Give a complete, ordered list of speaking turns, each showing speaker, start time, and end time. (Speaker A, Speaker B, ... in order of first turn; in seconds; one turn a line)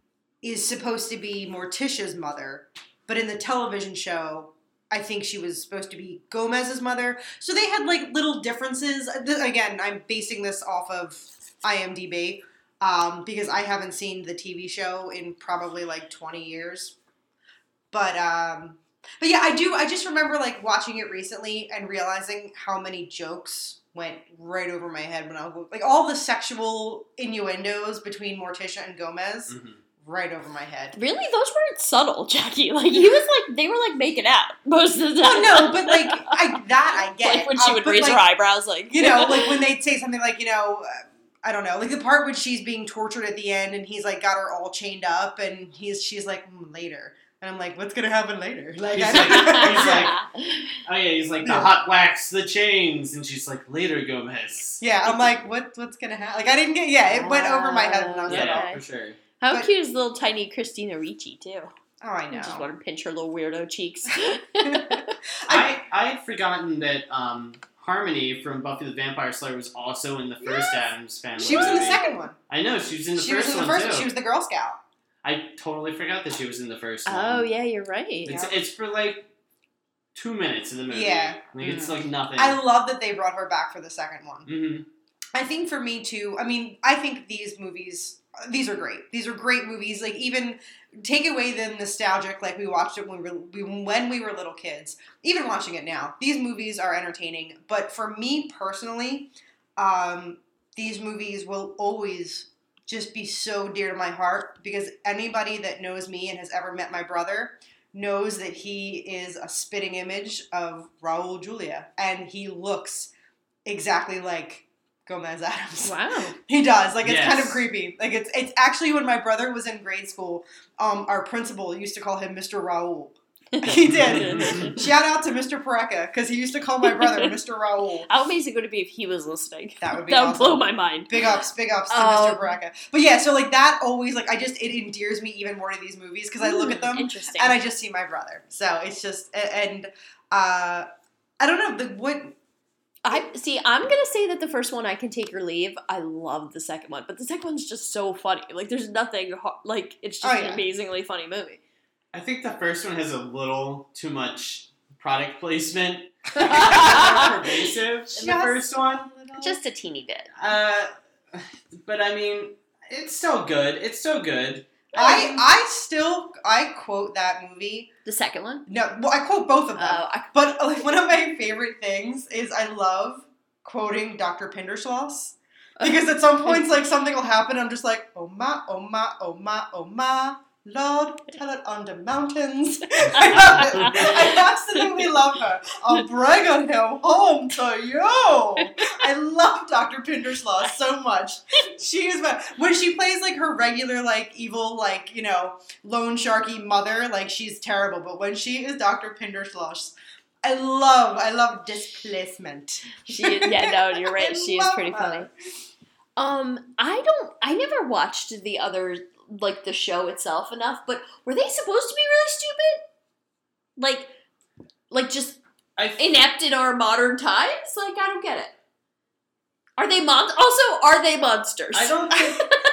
Speaker A: 0.4-17.0
Speaker A: 17.9-31.0
Speaker B: 29.5-29.8
Speaker C: 31.0-36.6
Speaker A: 35.2-38.3
Speaker C: 37.2-39.6
Speaker A: 38.9-50.1
Speaker B: 48.9-50.2
Speaker C: 49.3-50.7
Speaker B: 50.9-54.8
Speaker A: 51.4-51.7
Speaker A: 54.8-58.7
Speaker C: 57.2-58.8
Speaker B: 58.3-59.2
Speaker C: 59.4-61.7
Speaker A: 62.0-62.7
Speaker C: 62.3-65.1
Speaker A: 64.6-65.8
Speaker B: 65.5-74.1
Speaker C: 70.4-70.8
Speaker A: 71.4-72.4
Speaker C: 71.4-71.9
Speaker A: 73.1-74.8
Speaker B: 75.2-77.5
Speaker C: 77.1-78.5
Speaker B: 78.2-79.3
Speaker B: 80.2-82.6
Speaker A: 80.9-81.4
Speaker C: 81.6-81.9
Speaker A: 82.3-84.5
Speaker B: 84.5-84.9
Speaker A: 85.3-113.1
Speaker A: 113.7-128.1
Speaker C: 115.8-116.4
Speaker B: 117.0-117.7
Speaker C: 123.5-124.8
Speaker B: 123.7-124.9
Speaker C: 126.8-127.3
Speaker C: 128.1-132.5
Speaker A: 129.8-140.9
Speaker C: 136.4-137.6
Speaker A: 141.4-142.4
Speaker C: 143.0-151.6
Speaker A: 150.2-150.6
Speaker B: 152.1-159.1
Speaker C: 156.4-157.3
Speaker A: 156.4-157.5
Speaker A: 158.1-159.6
Speaker C: 159.4-160.3
Speaker B: 160.4-164.7
Speaker C: 164.9-165.4
Speaker A: 164.9-167.9
Speaker C: 168.1-168.7
Speaker A: 168.7-205.3
Speaker C: 169.8-170.3
Speaker C: 175.8-176.6
Speaker B: 183.5-184.1
Speaker C: 183.6-184.2
Speaker C: 203.1-205.3
Speaker C: 206.2-212.8
Speaker C: 213.8-214.1
Speaker C: 214.9-215.4
Speaker B: 215.8-216.2
Speaker C: 216.0-218.5
Speaker C: 219.8-222.4
Speaker B: 221.7-222.5